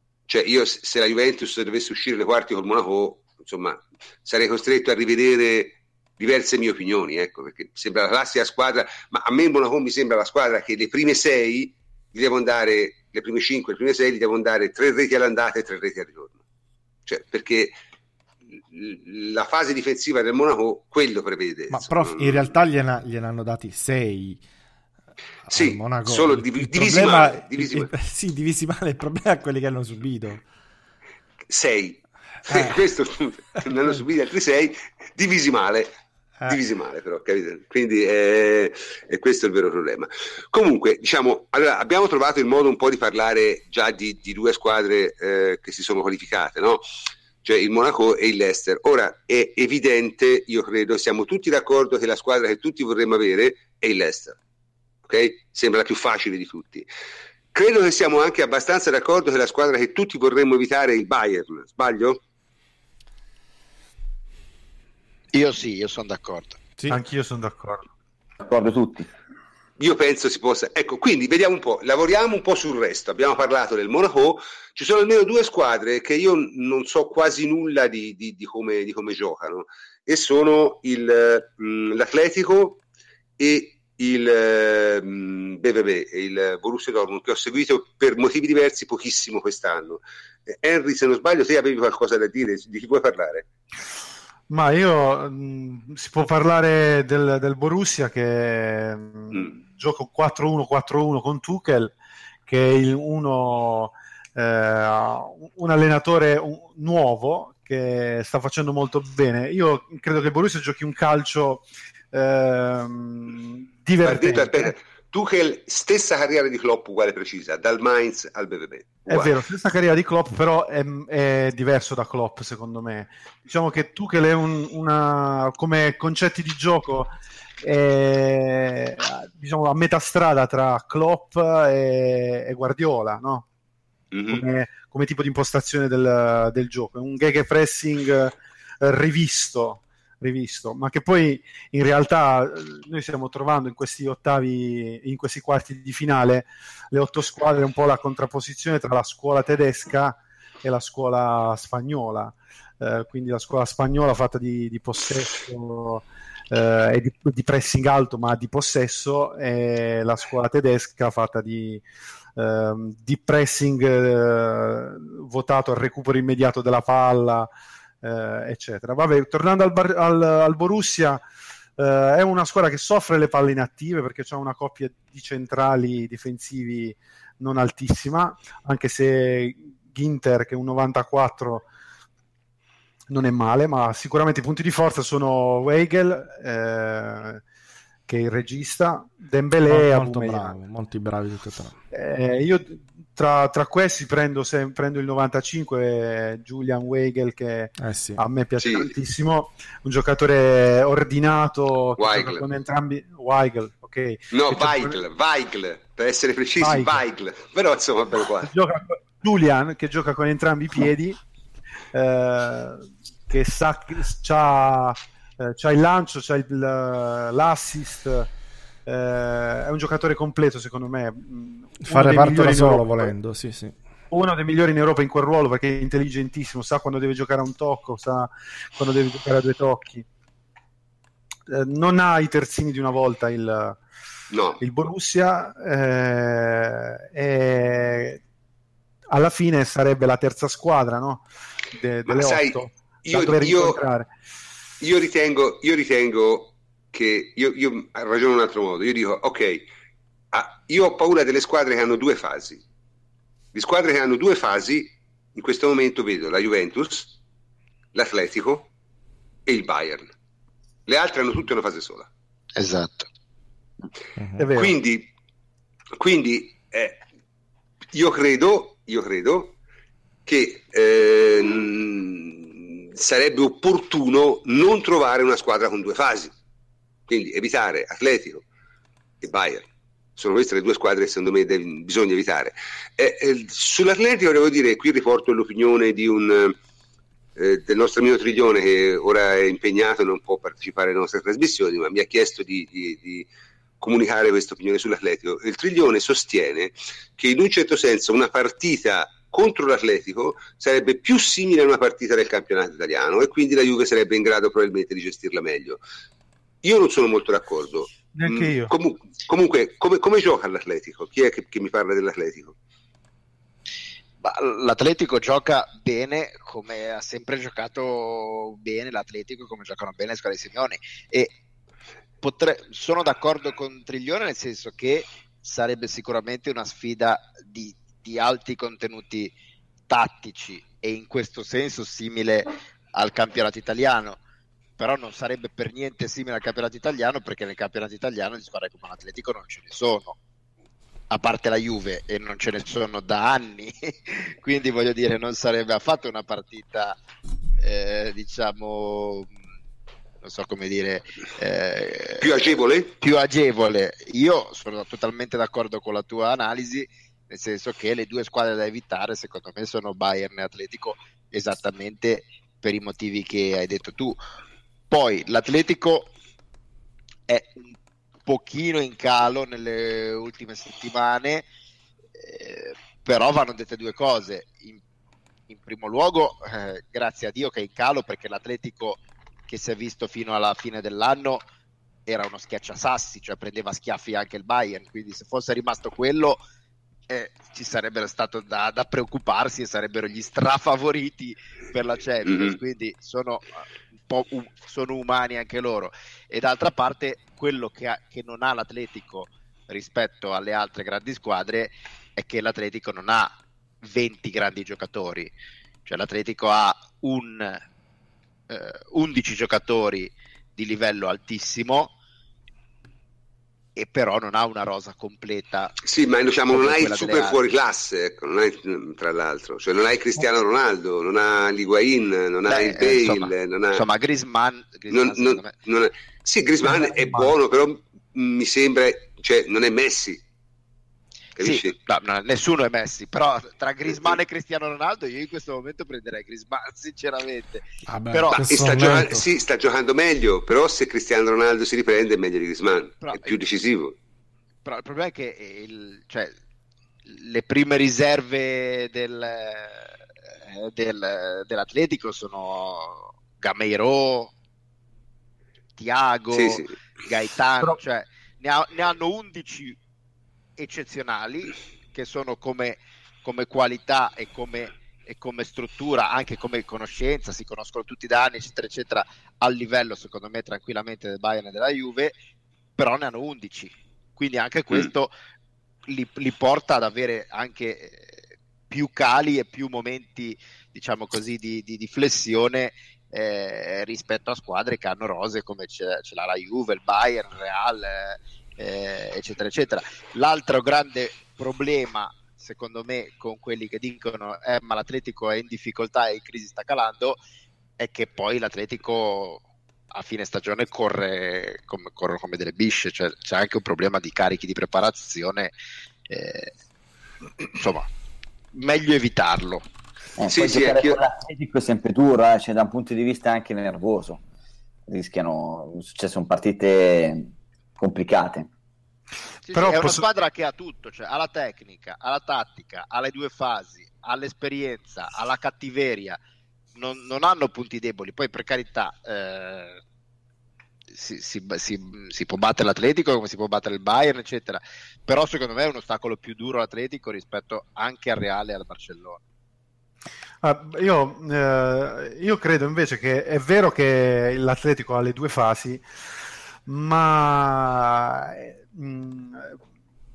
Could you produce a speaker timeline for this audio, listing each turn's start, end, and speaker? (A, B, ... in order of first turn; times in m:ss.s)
0:00.3-0:16.4 A
0:17.1-0:17.7 A
0:18.7-0:22.5 A
0:21.7-0:24.4 B
0:25.5-0:30.4 B
0:25.5-0:27.9 A
0:31.5-0:35.9 A
0:32.5-0:32.8 B
0:33.6-0:33.9 B
0:36.5-0:46.8 A
0:47.4-0:54.4 A
0:55.1-0:56.9 A
0:57.5-1:02.2 A
1:05.3-1:06.6 C
1:06.9-1:07.9 D
1:08.4-1:09.1 E
1:09.8-1:22.8 A
1:23.4-1:33.4 A
1:34.5-1:41.9 D
1:42.5-1:54.7 D
1:54.0-1:59.3 A
1:59.1-2:13.5 D
2:14.1-2:14.4 A
2:14.3-2:41.8 D
2:42.4-2:47.5 D
2:48.0-2:51.2 D
2:51.8-3:01.7 D
3:03.1-3:07.4 D
3:08.1-3:10.6 D
3:09.7-3:11.8 B
3:11.9-3:25.0 D
3:17.8-3:18.2 B
3:18.6-3:18.9 A
3:22.0-3:22.4 A
3:24.3-3:28.5 A
3:26.6-3:27.0 D
3:28.4-3:31.2 D
3:31.9-3:38.3 D
3:38.9-3:43.1 D
3:41.9-3:43.8 B
3:44.1-3:50.0 D
3:51.5-3:53.8 D
3:54.3-3:54.6 A
3:54.6-3:58.2 D
3:59.1-4:04.1 D
4:02.1-4:03.8 A
4:04.8-4:09.7 A
4:10.3-4:12.6 A
4:13.5-4:17.1 A
4:17.9-4:18.7 A
4:19.5-4:20.1 A
4:20.9-4:22.1 A
4:22.6-4:23.1 C
4:24.2-4:24.5 B
4:24.4-4:24.8 D
4:24.5-4:25.1 A
4:26.0-4:27.0 A
4:27.9-4:29.6 A
4:30.3-4:36.3 A
4:37.1-4:38.4 A
4:39.2-4:46.6 A
4:47.4-4:53.3 A
4:53.8-5:05.8 A
5:06.6-5:12.6 A
5:08.1-5:08.7 D
5:14.2-5:21.3 C
5:22.2-5:29.3 C
5:29.9-5:34.2 C
5:34.8-5:40.2 C
5:41.1-5:47.0 C
5:47.6-5:49.3 C
5:50.2-5:52.4 C
5:52.2-5:52.9 A
5:53.0-6:04.2 C
6:04.9-6:06.1 C
6:07.3-6:11.5 C
6:12.2-6:14.8 C
6:15.5-6:21.4 C
6:22.1-6:26.4 C
6:27.1-6:45.3 C
6:32.3-6:32.6 A
6:45.9-6:47.6 C
6:48.5-6:51.9 C
6:53.8-6:55.8 C
6:55.8-7:03.8 A
6:56.5-6:57.4 C
7:02.5-7:05.5 C
7:04.9-7:10.2 A
7:06.6-7:07.4 D
7:11.4-7:11.8 A
7:11.4-7:18.5 C
7:17.9-7:19.3 B
7:18.3-7:24.0 A
7:23.0-7:23.4 C
7:24.6-7:26.4 C
7:27.1-7:34.3 C
7:35.8-7:39.8 C
7:36.3-7:36.7 A
7:40.6-7:52.2 C
7:52.8-7:55.1 C
7:55.9-8:17.2 C
8:17.8-8:25.5 C
8:26.1-8:26.5 C
8:27.5-8:27.9 C
8:28.5-8:29.6 C
8:30.2-8:34.2 E
8:30.3-8:31.0 A
8:34.9-8:38.5 E
8:39.5-8:46.2 C
8:39.5-8:40.0 D
8:46.8-8:49.8 C
8:50.9-8:59.2 C
9:00.4-9:05.8 D
9:06.7-9:09.5 D